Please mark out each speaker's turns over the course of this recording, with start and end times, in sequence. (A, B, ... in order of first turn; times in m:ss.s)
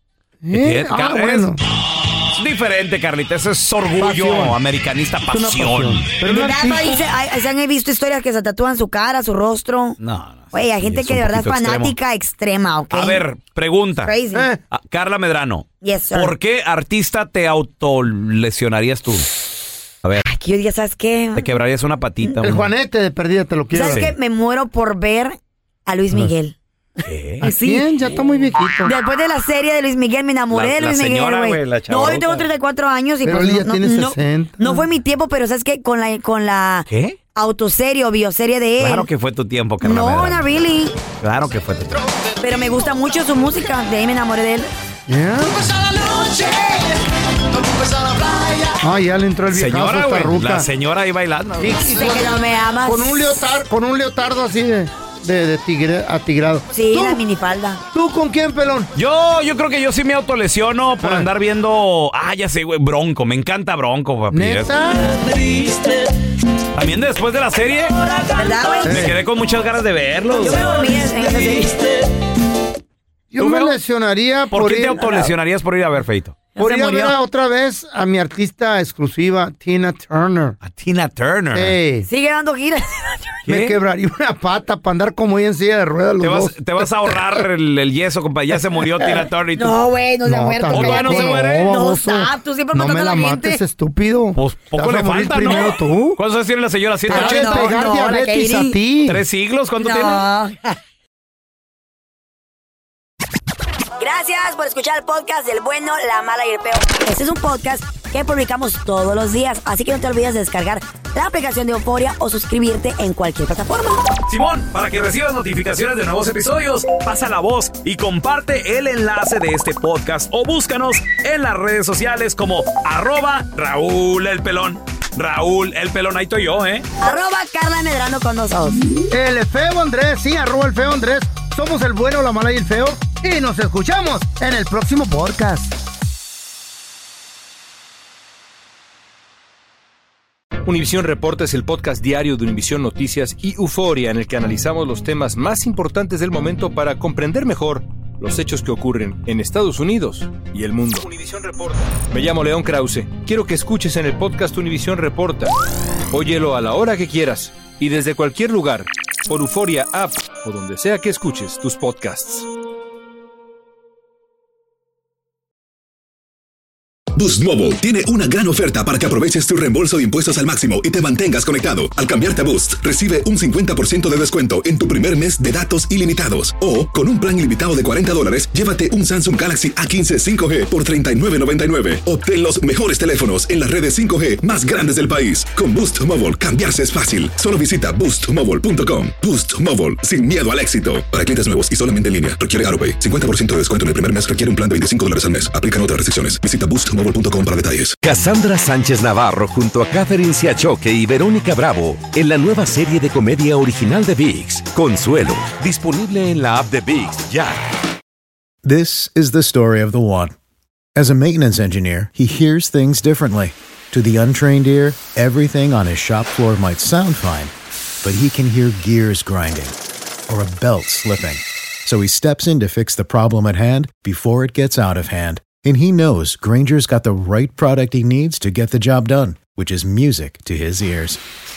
0:00.4-0:01.6 A
0:00.5-0:01.5 B
0:02.3-0:06.2 B
0:04.0-0:04.6 A
0:05.3-0:07.0 A
0:06.3-0:10.0 C
0:10.0-0:11.9 B
0:10.5-0:13.2 C
0:12.9-0:14.1 B
0:14.0-0:14.5 C
0:14.3-0:14.6 A
0:14.6-0:19.3 B
0:15.8-0:16.3 C
0:20.3-0:21.4 C
0:21.4-0:22.7 B
0:22.2-0:22.6 C
0:22.4-0:24.0 A
0:23.7-0:25.4 C
0:23.8-0:24.1 B
0:25.9-0:27.9 C
0:27.0-0:27.4 B
0:27.4-0:28.9 A
0:28.8-0:39.0 C
0:30.5-0:32.5 B
0:33.2-0:34.8 A
0:36.9-0:37.2 B
0:38.8-0:40.4 B
0:39.8-0:41.0 C
0:41.2-0:42.0 B
0:42.4-0:44.7 C
0:45.1-0:45.7 A
0:48.8-0:50.7 A
0:49.5-0:51.8 B
0:51.6-0:57.2 A
0:51.8-0:53.4 C
0:56.7-0:57.8 C
0:57.9-0:58.9 A
0:59.0-1:04.7 B
1:01.0-1:01.3 A
1:04.3-1:05.1 A
1:06.7-1:10.9 B
1:08.3-1:09.1 C
1:08.8-1:09.2 A
1:10.4-1:11.8 C
1:13.3-1:15.3 A
1:13.4-1:13.8 B
1:14.5-1:16.6 B
1:16.6-1:17.1 C
1:16.6-1:20.6 A
1:20.6-1:21.7 B
1:21.5-1:22.1 A
1:22.1-1:23.4 C
1:23.5-1:23.7 B
1:23.5-1:27.2 A
1:26.2-1:29.7 B
1:29.6-1:33.6 C
1:30.2-1:36.2 A
1:30.7-1:31.7 B
1:34.4-1:37.7 B
1:37.1-1:39.2 A
1:37.1-1:38.8 C
1:39.1-1:40.2 B
1:39.8-1:40.8 C
1:44.0-1:54.0 C
1:54.3-2:06.8 B
2:07.0-2:08.8 C
2:09.1-2:15.7 A
2:20.6-2:35.5 D
2:36.1-2:42.4 D
2:47.1-3:18.0 E
3:18.0-3:27.6 F
3:28.6-3:30.3 G
3:31.0-3:39.8 G
3:40.3-3:51.2 G